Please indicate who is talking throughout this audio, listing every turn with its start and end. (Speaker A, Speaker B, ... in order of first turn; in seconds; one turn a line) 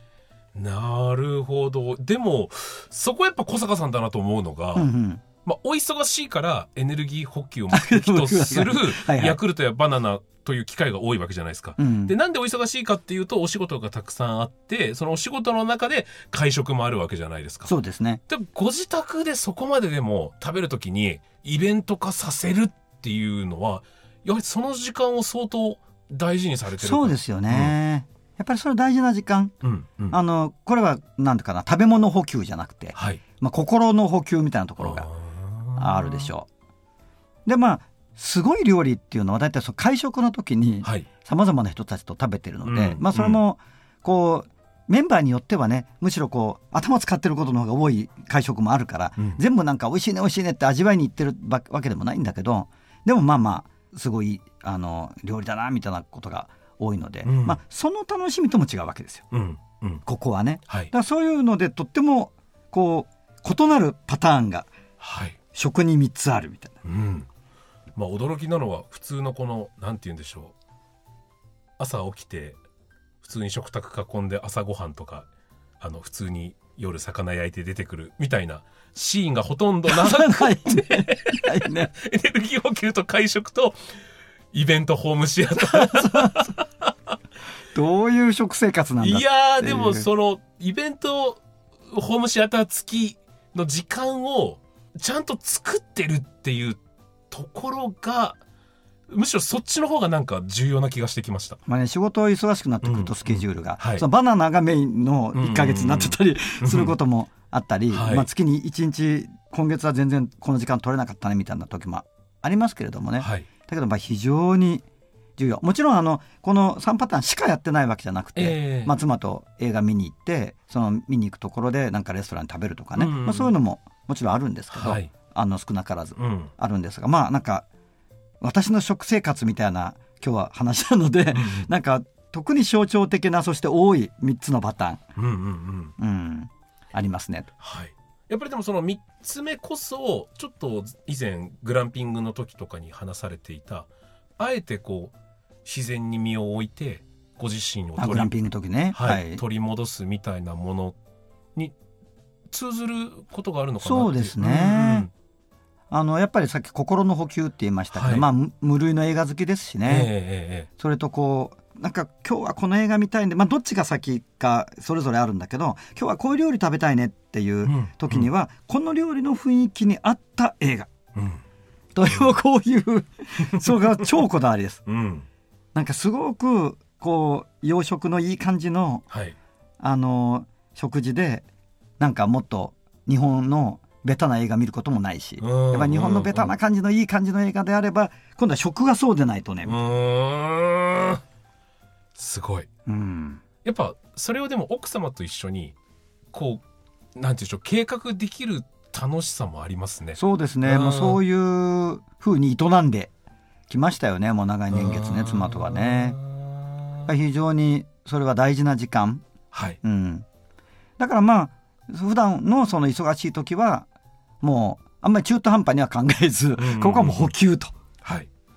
Speaker A: 0.5-4.9
Speaker B: 4.7-5.2
Speaker A: 5.4-17.7
Speaker B: 7.7-9.4
Speaker B: 11.8-12.1
Speaker B: 17.6-18.2
Speaker A: 18.3-27.8
Speaker B: 26.8-29.5
Speaker A: 29.6-30.2
Speaker B: 30.1-35.1
Speaker A: 32.9-33.2
Speaker A: 34.8-36.3
Speaker B: 35.8-36.5
Speaker B: 37.5-59.2
Speaker A: 40.8-41.1
Speaker A: 42.6-43.4
Speaker A: 57.2-57.6
Speaker A: 59.3-60.0
Speaker B: 60.0-64.7
Speaker A: 65.0-65.4
Speaker B: 65.5-66.8
Speaker A: 66.8-67.3
Speaker A: 68.0-70.5
Speaker A: 71.8-72.6
Speaker A: 73.2-75.3
Speaker A: 75.8-83.8
Speaker B: 79.9-81.9
Speaker A: 84.5-86.9
Speaker B: 85.5-86.5
Speaker B: 87.7-90.1
Speaker A: 89.0-96.8
Speaker A: 97.3-98.4
Speaker A: 99.1-101.6
Speaker B: 101.7-114.8
Speaker A: 102.8-104.0
Speaker A: 105.3-107.0
Speaker A: 107.9-108.3
Speaker A: 113.2-113.5
Speaker B: 115.4-127.7
Speaker A: 118.3-118.9
Speaker A: 123.0-123.6
Speaker A: 124.7-125.1
Speaker A: 126.2-126.5
Speaker B: 128.4-135.0
Speaker A: 131.3-131.7
Speaker A: 135.2-135.9
Speaker B: 136.0-137.5
Speaker A: 137.6-148.3
Speaker B: 148.0-149.4
Speaker A: 148.9-151.0
Speaker A: 152.5-155.1
Speaker B: 153.8-155.1
Speaker B: 155.9-160.1
Speaker A: 157.9-158.2
Speaker A: 159.8-160.7
Speaker B: 160.8-170.9
Speaker A: 167.7-168.3
Speaker A: 171.2-171.4
Speaker B: 171.9-174.8
Speaker A: 172.1-172.3
Speaker A: 173.4-174.2
Speaker A: 174.8-175.3
Speaker B: 175.7-179.1
Speaker A: 179.1-179.3
Speaker B: 179.8-181.4
Speaker B: 182.0-189.8
Speaker A: 185.4-186.5
Speaker A: 189.6-191.2
Speaker A: 192.2-192.7
Speaker B: 192.9-193.4
Speaker A: 193.6-195.7
Speaker A: 196.3-196.6
Speaker A: 197.2-201.2
Speaker B: 200.2-203.1
Speaker B: 203.7-206.2
Speaker A: 204.7-207.1
Speaker B: 207.1-209.2
Speaker A: 209.5-209.8
Speaker B: 209.8-210.2
Speaker B: 211.0-213.9
Speaker B: 214.4-217.7
Speaker A: 216.6-217.3